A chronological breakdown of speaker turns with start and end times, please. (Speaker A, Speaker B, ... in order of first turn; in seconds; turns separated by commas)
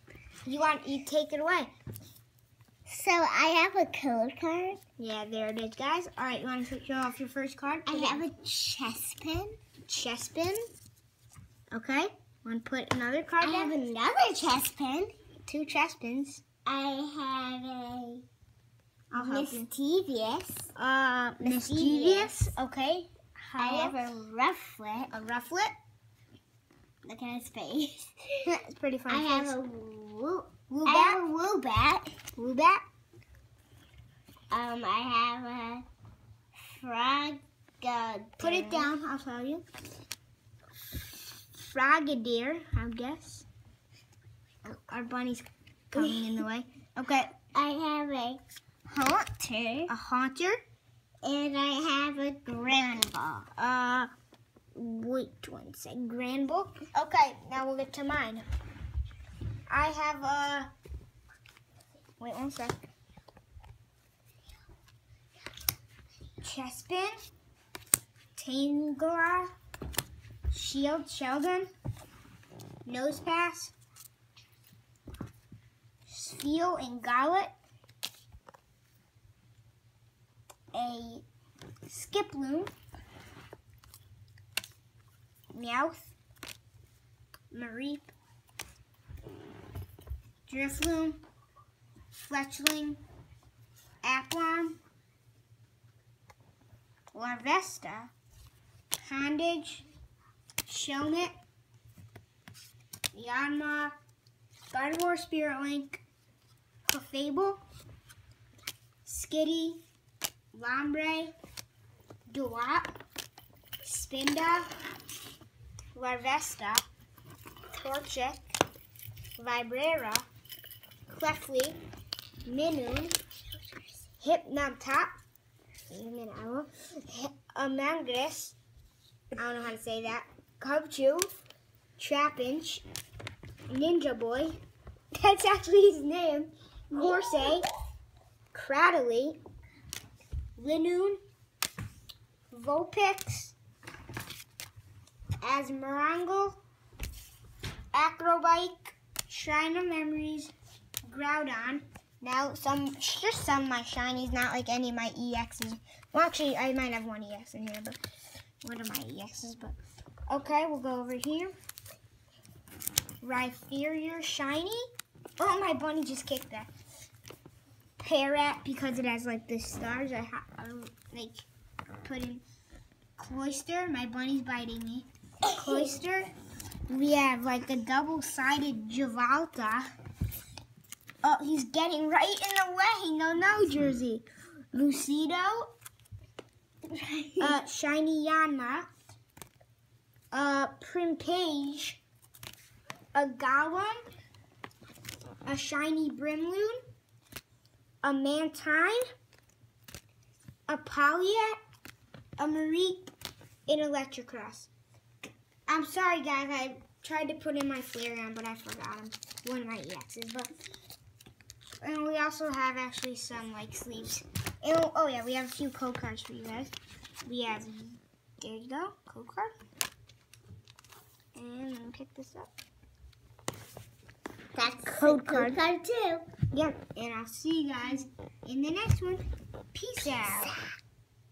Speaker A: 0.5-1.7, Speaker B: 2.9-4.8, Speaker A: 5.0-8.2, Speaker B: 7.8-9.6, Speaker A: 9.9-10.6, Speaker A: 11.7-13.8, Speaker B: 13.4-15.1, Speaker A: 15.4-16.4, Speaker B: 16.6-18.2, Speaker A: 19.1-19.6, Speaker B: 19.1-20.7, Speaker A: 20.7-24.0, Speaker B: 21.4-22.4, Speaker B: 23.6-25.1, Speaker A: 25.1-25.7, Speaker B: 27.0-28.5, Speaker A: 28.4-29.6, Speaker B: 29.1-32.1, Speaker A: 30.7-31.2, Speaker A: 32.4-32.8, Speaker B: 34.5-35.9, Speaker B: 36.6-38.9, Speaker A: 38.4-39.6, Speaker A: 41.5-43.5, Speaker A: 44.6-47.3, Speaker B: 47.5-48.4, Speaker A: 48.9-50.6, Speaker B: 49.4-49.9, Speaker B: 51.2-53.5, Speaker A: 53.5-54.1, Speaker A: 54.7-58.4, Speaker A: 59.7-60.7, Speaker A: 62.2-62.8, Speaker A: 66.4-67.2, Speaker A: 68.3-69.5, Speaker A: 70.5-71.7, Speaker A: 72.8-73.7, Speaker A: 76.1-77.5, Speaker A: 80.7-81.2, Speaker A: 81.9-82.7, Speaker A: 85.5-86.1, Speaker A: 87.5-88.1, Speaker A: 90.5-91.2, Speaker A: 92.1-93.0, Speaker A: 94.0-94.8, Speaker A: 97.1-98.1, Speaker A: 99.0-99.8, Speaker A: 100.7-101.3, Speaker A: 103.1-103.9, Speaker A: 104.7-106.0, Speaker A: 106.9-107.6, Speaker A: 109.0-109.8, Speaker A: 110.5-111.3, Speaker A: 112.3-113.0, Speaker A: 113.8-114.7, Speaker A: 115.9-116.8, Speaker A: 117.7-118.5, Speaker A: 119.4-120.2, Speaker A: 121.1-121.8, Speaker A: 122.4-123.2, Speaker B: 123.6-123.9, Speaker A: 124.2-125.2, Speaker A: 125.9-128.6, Speaker A: 129.3-131.3, Speaker A: 132.0-132.8, Speaker A: 133.7-134.6, Speaker A: 135.1-137.7, Speaker A: 138.5-139.4, Speaker A: 140.6-141.2, Speaker A: 142.5-143.6, Speaker A: 145.4-146.6, Speaker A: 147.9-150.5, Speaker A: 151.1-158.0, Speaker A: 158.6-159.8, Speaker A: 160.3-161.5, Speaker A: 163.2-164.9, Speaker A: 165.4-166.7, Speaker A: 168.0-171.4, Speaker A: 172.0-172.4, Speaker A: 173.2-176.3, Speaker A: 176.9-179.9, Speaker A: 181.2-185.7, Speaker B: 186.9-187.5, Speaker A: 187.4-188.9, Speaker A: 190.3-192.0, Speaker A: 193.1-194.0, Speaker A: 195.4-196.8, Speaker A: 198.0-199.0, Speaker A: 200.7-201.6, Speaker A: 202.4-203.0, Speaker A: 203.7-204.7, Speaker A: 205.7-210.5, Speaker A: 211.8-216.7, Speaker A: 217.2-219.5, Speaker A: 221.3-222.5, Speaker B: 224.5-226.3, Speaker A: 224.8-225.6, Speaker A: 226.5-230.6